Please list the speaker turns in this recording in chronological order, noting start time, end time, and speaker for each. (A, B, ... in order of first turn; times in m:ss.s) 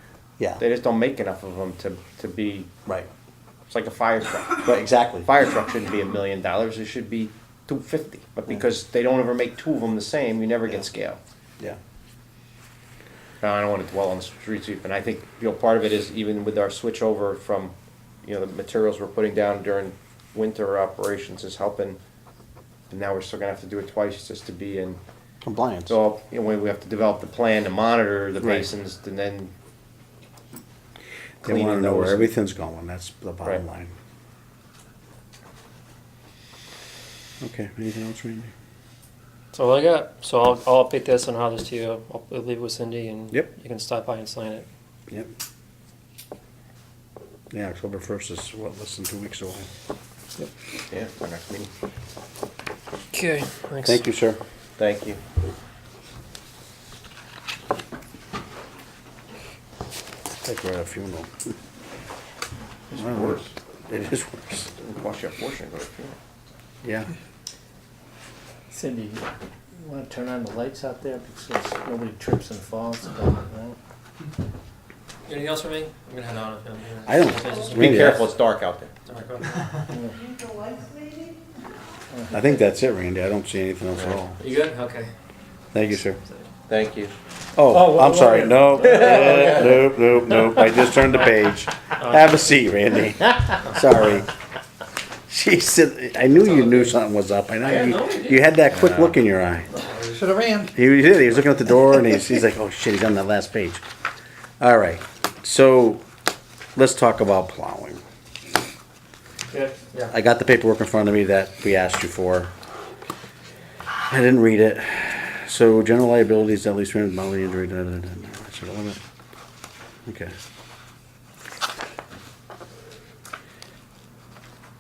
0:00.6-0:02.7 A
0:03.7-0:11.2 A
0:04.7-0:05.3 B
0:13.4-0:22.0 A
0:22.9-0:25.0 A
0:25.4-0:26.0 B
0:25.9-0:29.5 A
0:28.4-0:28.7 B
0:31.4-0:32.3 A
0:31.4-0:33.9 B
0:37.4-0:38.5 B
0:39.5-0:44.7 C
0:47.5-0:49.7 B
0:50.9-0:51.7 A
0:53.1-0:54.0 C
0:53.8-0:54.4 B
0:54.8-0:55.2 A
1:00.4-1:01.5 B
1:02.9-1:03.6 A
1:02.9-1:04.7 B
1:04.8-1:06.2 A
1:06.8-1:07.1 B
1:08.7-1:13.8 D
1:15.3-1:18.3 C
1:17.1-1:18.2 B
1:17.7-1:18.9 A
1:19.1-1:19.8 C
1:22.3-1:24.4 B
1:24.4-1:25.1 C
1:25.7-1:26.2 B
1:25.8-1:26.5 C
1:26.7-1:27.1 A
1:27.5-1:34.3 B
1:28.9-1:29.3 D
1:28.9-1:29.6 A
1:29.0-1:29.5 C
1:30.9-1:32.8 C
1:33.6-1:34.2 C
1:35.3-1:39.7 B
1:36.4-1:37.0 C
1:37.6-1:38.4 C
1:38.7-1:39.1 A
1:39.8-1:40.4 C
1:40.7-1:43.8 B
1:44.6-1:46.0 B
1:46.8-1:48.0 B
1:50.1-1:52.5 B
1:54.1-1:59.0 B
2:00.1-2:00.4 B